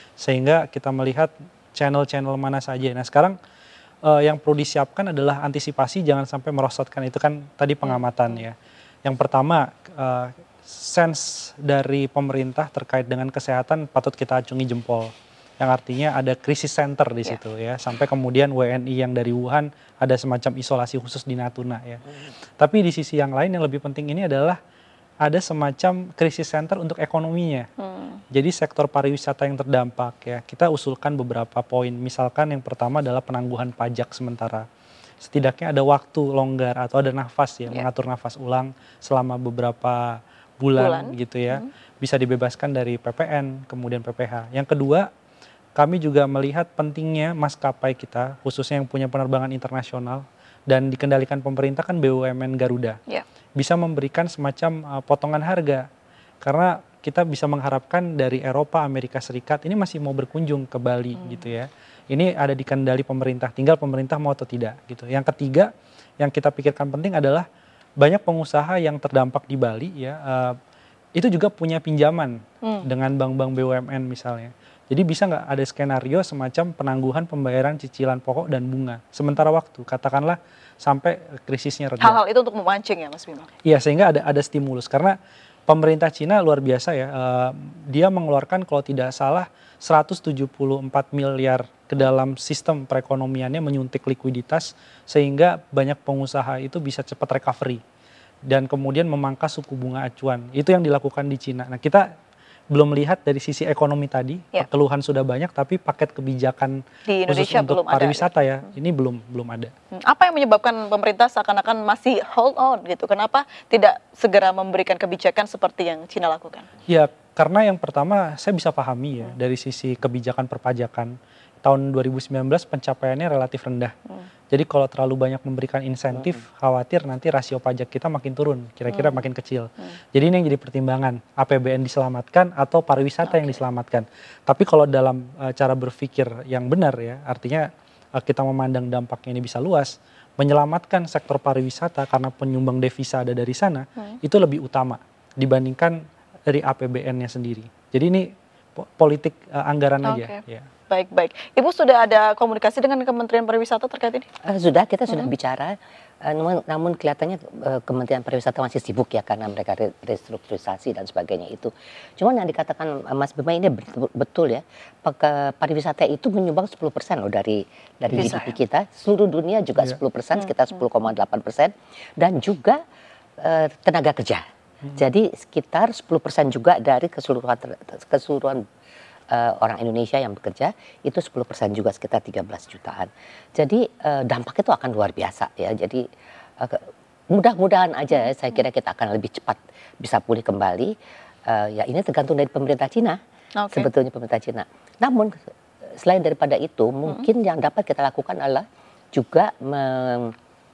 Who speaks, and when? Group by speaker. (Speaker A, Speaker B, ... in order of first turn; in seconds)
Speaker A: 0.2-3.4, 4.1-22.0, 22.6-24.6, 25.2-27.7, 28.3-34.6, 35.2-45.1, 45.8-53.0, 53.6-55.8, 56.4-65.7, 66.2-67.5, 68.0-70.6, 71.2-82.2, 83.6-85.2, 85.7-97.8, 98.5-102.0, 102.7-109.7, 116.9-123.9, 124.5-146.0, 146.5-150.7
Speaker B: 27.8-28.2, 40.8-41.7, 61.2-61.5, 82.0-83.5, 107.1-108.3, 109.9-116.7, 128.9-129.3, 133.2-133.6, 150.0-154.3, 168.2-168.6, 193.6-193.9
Speaker C: 154.4-172.8, 173.4-174.4, 174.9-178.6, 179.3-186.0, 186.6-190.9, 191.5-193.2, 193.7-195.4, 196.0-200.3